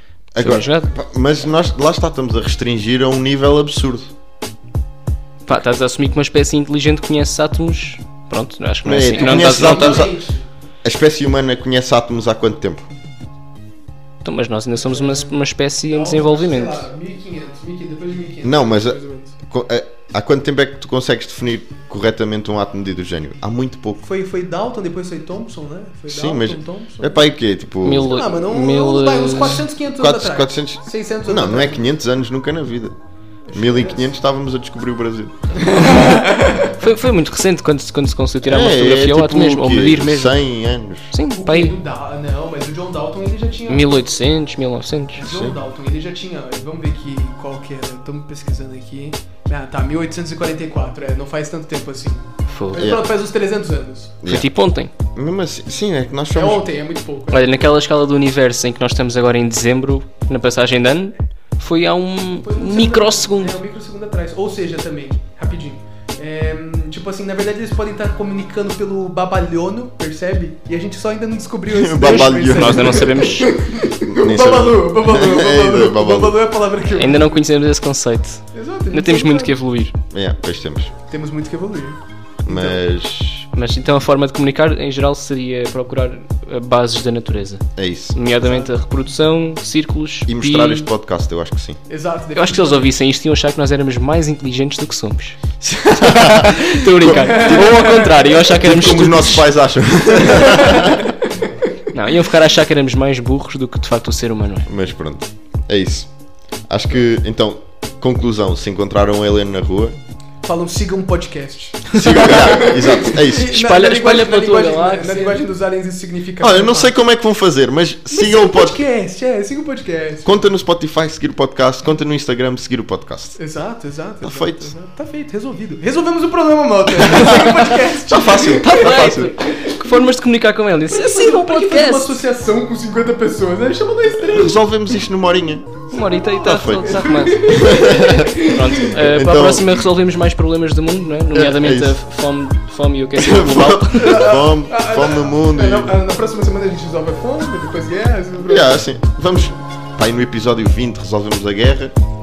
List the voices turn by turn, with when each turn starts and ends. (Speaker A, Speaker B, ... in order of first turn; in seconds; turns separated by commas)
Speaker A: 0.3-4.1, Speaker B: 0.4-0.9, Speaker B: 5.5-10.1, Speaker A: 8.8-10.1, Speaker C: 9.1-10.5, Speaker A: 10.8-12.9, Speaker B: 14.2-16.9, Speaker C: 14.8-15.3, Speaker C: 15.9-19.4, Speaker A: 18.4-24.0, Speaker C: 24.0-27.3, Speaker A: 26.1-28.2, Speaker B: 27.8-29.7, Speaker C: 28.0-31.9, Speaker A: 30.0-33.0, Speaker C: 33.5-34.1, Speaker A: 33.5-35.7, Speaker C: 35.5-36.8, Speaker B: 35.7-40.4, Speaker A: 38.4-41.1, Speaker B: 41.1-41.8, Speaker C: 41.4-44.1, Speaker B: 43.7-45.2, Speaker C: 45.1-54.2, Speaker A: 45.3-45.6, Speaker B: 52.5-52.9, Speaker A: 52.8-53.0, Speaker A: 54.2-54.5, Speaker B: 54.3-54.9, Speaker A: 55.1-56.6, Speaker C: 56.3-57.6, Speaker B: 57.3-63.6, Speaker C: 62.4-77.5, Speaker A: 71.7-73.3, Speaker B: 72.0-73.5, Speaker A: 73.9-76.4, Speaker B: 76.9-80.0, Speaker C: 78.5-79.6, Speaker A: 80.1-80.9, Speaker C: 81.1-82.8, Speaker A: 82.5-83.5, Speaker B: 83.5-90.9, Speaker A: 87.8-88.2, Speaker C: 88.4-88.7, Speaker A: 90.3-91.8, Speaker C: 91.9-92.9, Speaker B: 92.4-99.5, Speaker A: 95.6-97.7, Speaker C: 97.0-98.6, Speaker A: 98.5-101.1, Speaker C: 100.1-101.7, Speaker B: 101.9-104.7, Speaker A: 104.7-106.1, Speaker A: 106.7-110.0, Speaker C: 110.4-117.0, Speaker A: 111.9-113.6, Speaker B: 113.3-115.4, Speaker A: 116.4-118.8, Speaker C: 118.1-120.4, Speaker A: 120.2-123.4, Speaker C: 123.4-130.1, Speaker A: 124.2-124.7, Speaker A: 127.0-129.3, Speaker B: 128.6-132.2, Speaker C: 130.9-134.6, Speaker A: 134.2-135.8, Speaker B: 135.9-144.3, Speaker C: 136.0-138.9, Speaker A: 136.4-139.8, Speaker A: 141.3-142.0, Speaker A: 143.2-145.9, Speaker C: 143.9-148.8, Speaker A: 148.4-151.9